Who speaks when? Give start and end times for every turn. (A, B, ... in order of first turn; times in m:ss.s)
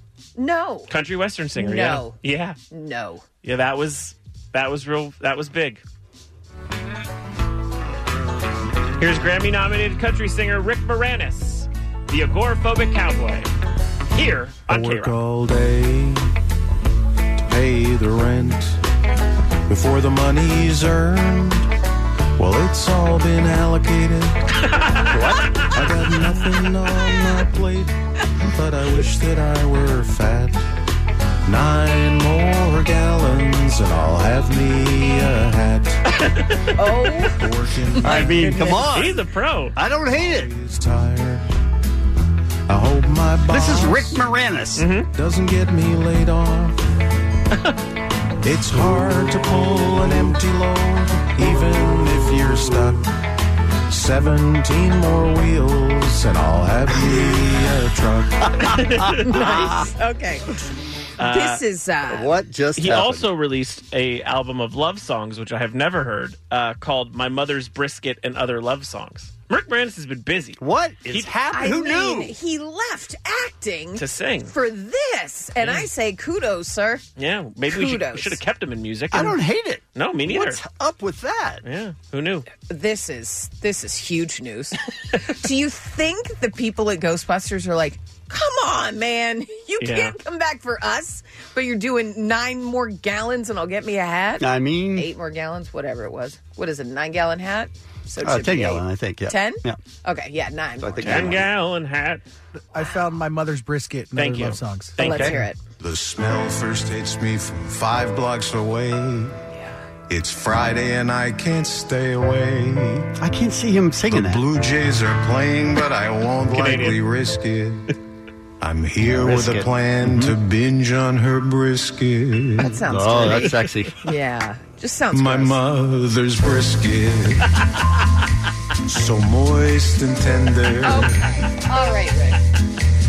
0:00.4-0:00.9 A
0:00.9-0:02.6 B
0:01.6-0:02.2 A
0:02.7-0:03.2 A
0:03.4-0:05.8 B
0:09.0-0:13.5 B
0:14.1-0:15.2 B
0:14.7-0:16.3 C
0:17.4-0:18.8 C
0:19.7-0:21.7 C
0:22.4-0:24.4 C
0:24.7-0:25.7 B
0:25.7-0:30.7 C
0:31.5-0:36.0 C
0:36.2-0:36.7 B
0:36.8-0:37.4 A
0:37.4-0:38.6 C
0:38.0-0:39.2 D
0:38.0-0:39.8 B
0:39.8-0:40.5 D
0:40.1-0:41.5 C
0:42.7-0:44.2 C
0:43.5-0:44.9 D
0:44.8-0:45.1 B
0:45.1-0:46.8 C
0:48.4-0:53.1 C
0:53.9-0:58.5 C
0:58.6-0:59.9 D
0:58.8-0:59.2 B
0:59.3-1:00.5 A
1:01.2-1:01.6 B
1:01.2-1:02.3 A
1:02.1-1:03.3 D
1:02.8-1:10.6 B
1:10.6-1:12.3 D
1:11.5-1:17.0 A
1:14.0-1:14.5 B
1:15.6-1:15.9 B
1:17.2-1:19.4 B
1:17.7-1:18.4 A
1:19.1-1:21.6 D
1:20.0-1:20.6 B
1:21.6-1:22.5 B
1:22.6-1:41.4 A
1:29.8-1:30.2 B
1:34.4-1:35.1 D
1:38.2-1:39.8 D
1:40.8-1:41.5 D
1:41.0-1:42.2 B
1:42.8-1:44.9 E
1:44.1-1:45.4 B
1:45.0-1:45.6 A
1:45.8-1:49.4 C
1:50.1-1:53.1 C
1:53.2-1:54.4 D
1:54.1-1:57.9 C
1:56.5-1:57.0 B
1:58.6-2:02.8 C
1:59.2-2:00.4 D
2:02.6-2:05.6 A
2:02.8-2:04.0 D
2:05.1-2:07.5 C
2:08.9-2:11.4 C
2:10.8-2:12.4 A